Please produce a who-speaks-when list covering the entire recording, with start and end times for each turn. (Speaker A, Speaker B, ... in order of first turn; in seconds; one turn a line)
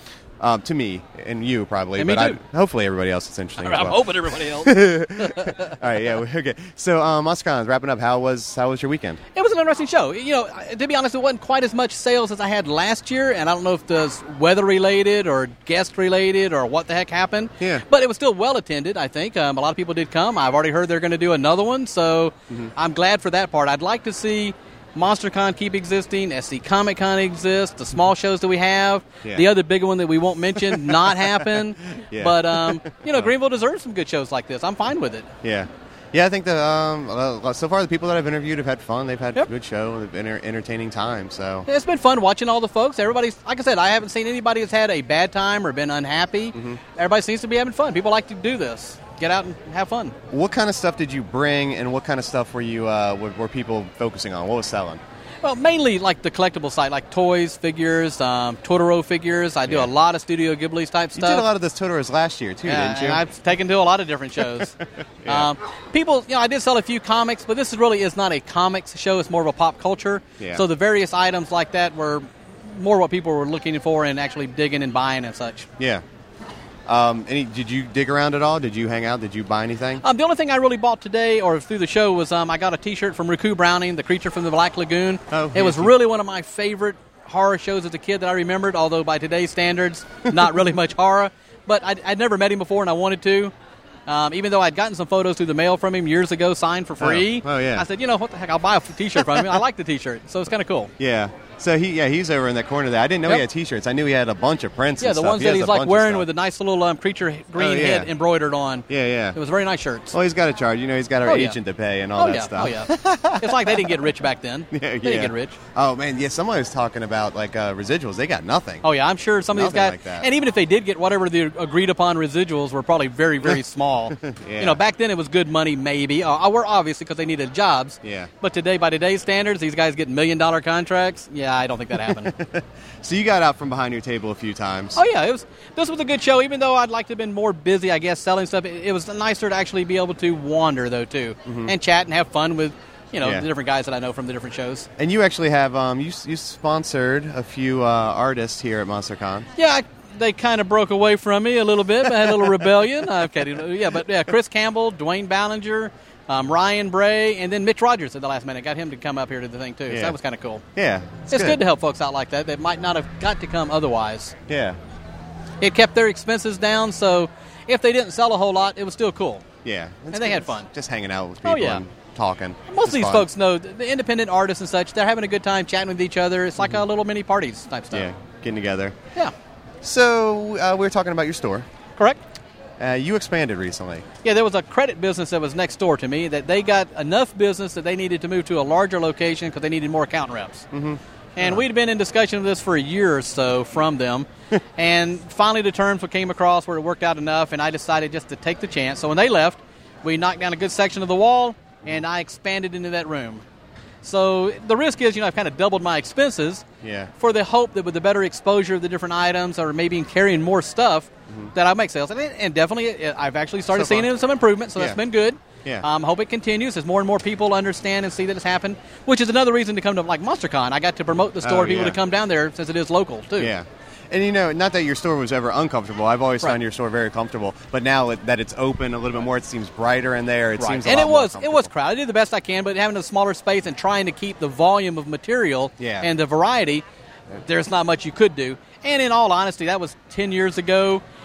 Speaker A: 0.4-9.2
Speaker B: 2.0-2.4
Speaker B: 3.6-5.8
Speaker B: 9.4-35.3
Speaker A: 30.6-33.3
Speaker A: 35.4-41.7
Speaker B: 41.7-50.1
Speaker A: 46.5-46.8
Speaker A: 50.3-55.0
Speaker B: 55.4-61.5
Speaker A: 59.7-59.9
Speaker A: 61.1-63.2
Speaker B: 62.6-64.8
Speaker A: 65.2-65.5
Speaker B: 65.3-75.7
Speaker A: 70.4-70.6
Speaker A: 75.8-76.0
Speaker A: 76.9-80.0
Speaker B: 80.0-93.5
Speaker A: 85.3-85.9
Speaker B: 94.1-100.9
Speaker A: 97.0-97.9
Speaker A: 101.0-106.3
Speaker B: 105.0-110.2
Speaker A: 107.6-108.1
Speaker A: 108.9-109.4
Speaker A: 110.1-114.0
Speaker B: 111.2-111.6
Speaker B: 112.2-115.6
Speaker A: 114.7-118.8
Speaker B: 118.8-132.3
Speaker A: 119.5-120.3
Speaker A: 124.2-124.8
Speaker A: 128.0-128.3
Speaker A: 132.0-135.0
Speaker B: 134.9-144.9
Speaker A: 141.5-141.7
Speaker A: 143.2-143.5
Speaker A: 145.0-149.5
Speaker B: 149.6-160.6
Speaker A: 159.9-160.2
Speaker A: 160.8-161.6
Speaker B: 161.3-164.3
Speaker A: 164.5-164.8
Speaker B: 165.6-169.4
Speaker A: 169.6-173.3
Speaker B: 170.1-170.7
Speaker B: 171.4-171.8
Speaker B: 172.7-178.1
Speaker A: 177.9-179.0
Speaker A: 179.8-181.7
Speaker B: 182.0-182.2
Speaker A: 182.8-184.1
Speaker B: 184.2-190.7
Speaker A: 190.7-191.6
Speaker B: 191.4-203.4
Speaker B: 204.0-206.7
Speaker A: 206.8-207.1
Speaker B: 207.2-223.5
Speaker A: 213.7-214.1
Speaker A: 221.4-222.0
Speaker A: 223.4-231.7
Speaker B: 230.6-236.8
Speaker A: 235.8-236.1
Speaker B: 237.4-241.0